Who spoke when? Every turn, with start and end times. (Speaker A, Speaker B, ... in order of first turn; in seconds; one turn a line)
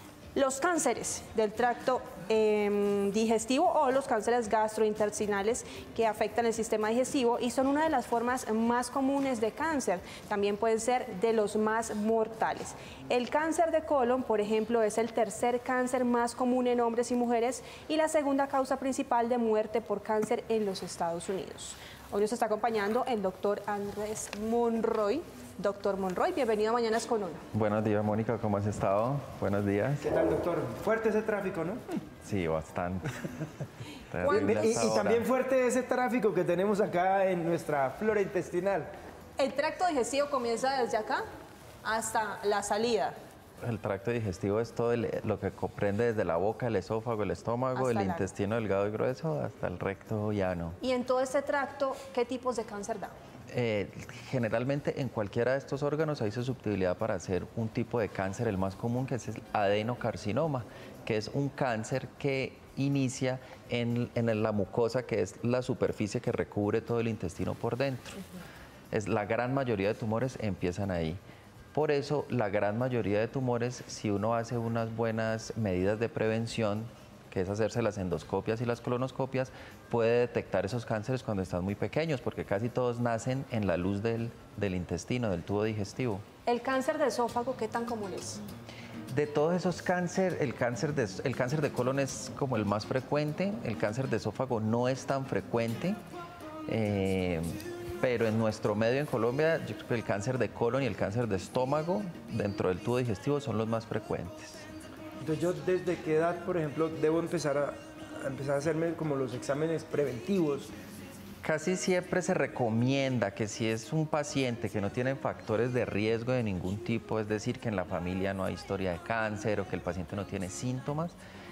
Speaker A: 0.3-27.4
Speaker B: 27.5-30.1
Speaker C: 30.0-32.0
Speaker B: 32.2-33.3
Speaker B: 34.1-35.3
Speaker A: 34.2-34.9
Speaker C: 34.2-38.9
Speaker A: 39.4-41.2
Speaker A: 41.8-43.2
Speaker B: 43.6-50.8
Speaker A: 47.7-48.2
Speaker A: 50.8-53.1
Speaker B: 53.5-68.2
Speaker B: 68.9-71.2
Speaker B: 71.7-86.2
Speaker A: 86.5-88.4
Speaker B: 89.1-96.0
Speaker B: 96.7-104.6
Speaker C: 105.2-110.7
Speaker B: 111.4-121.1